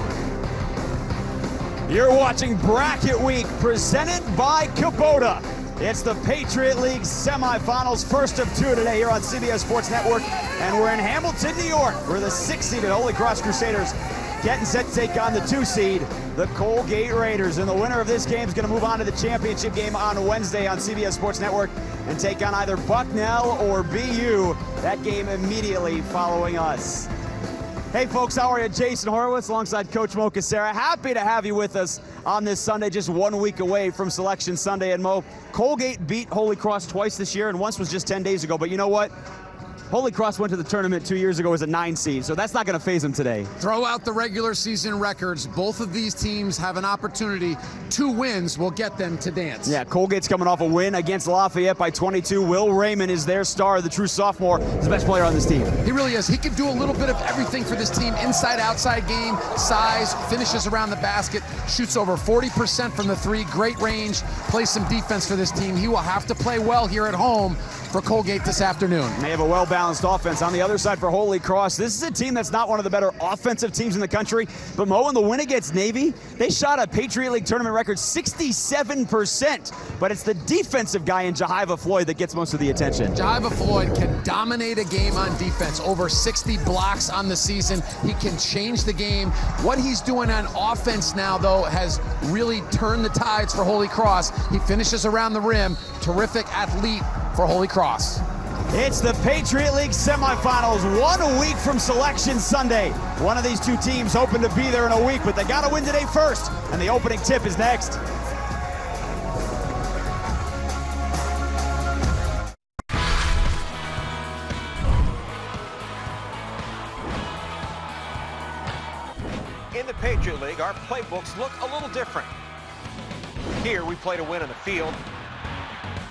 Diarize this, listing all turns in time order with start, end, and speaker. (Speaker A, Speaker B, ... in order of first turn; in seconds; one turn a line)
Speaker A: 1.9-27.1
Speaker A: 27.9-39.1
Speaker A: 39.9-43.5
Speaker B: 43.6-49.8
Speaker A: 49.6-55.8
Speaker B: 55.8-69.2
Speaker A: 69.2-83.2
Speaker B: 83.2-98.2
Speaker A: 98.7-108.0
Speaker C: 119.7-122.3
Speaker C: 123.6-125.0